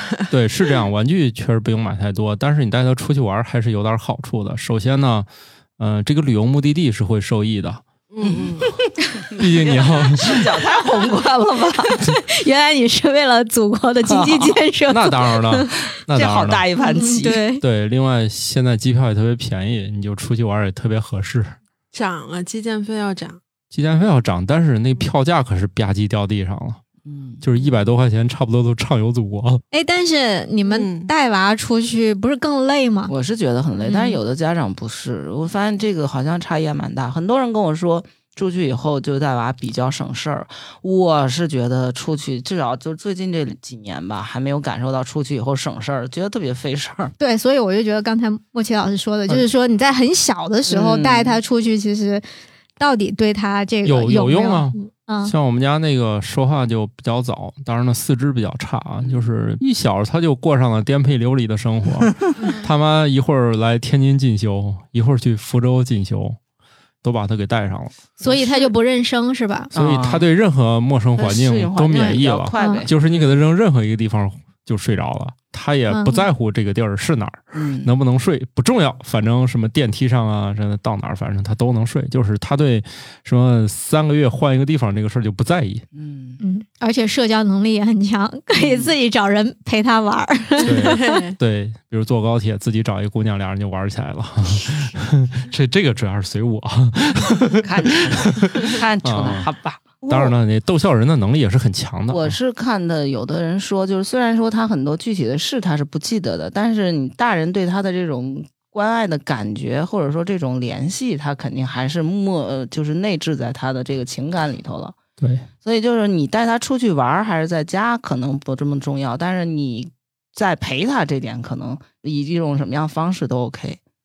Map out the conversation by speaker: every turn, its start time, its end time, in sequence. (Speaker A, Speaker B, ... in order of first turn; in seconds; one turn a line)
Speaker A: 0.3-5.3
Speaker A: 5.8-7.8
Speaker B: 8.1-8.7
Speaker C: 8.2-12.0
Speaker A: 9.3-10.4
Speaker D: 12.0-15.8
Speaker C: 14.1-14.6
Speaker A: 14.9-16.6
Speaker C: 16.1-17.4
Speaker D: 16.8-17.6
Speaker A: 17.6-21.6
Speaker B: 21.9-23.4
Speaker A: 23.7-26.8
Speaker C: 27.1-27.4
Speaker A: 27.4-29.6
Speaker D: 29.7-33.1
Speaker B: 30.6-31.1
Speaker C: 33.1-47.1
Speaker D: 33.9-34.1
Speaker D: 47.2-52.2
Speaker C: 50.7-51.4
Speaker D: 52.8-55.3
Speaker A: 53.8-66.4
Speaker A: 67.0-68.2
Speaker D: 68.2-69.7
Speaker C: 68.3-68.7
Speaker C: 69.7-70.2
Speaker A: 69.7-85.8
Speaker C: 71.2-73.0
Speaker D: 71.9-72.9
Speaker D: 75.9-76.3
Speaker C: 77.5-77.9
Speaker C: 85.9-86.4
Speaker D: 86.4-91.2
Speaker C: 88.5-88.9
Speaker B: 90.6-91.4
Speaker A: 90.6-99.5
Speaker C: 97.6-100.3
Speaker A: 100.1-102.4
Speaker C: 102.1-115.0
Speaker A: 115.2-115.5
Speaker C: 115.6-123.8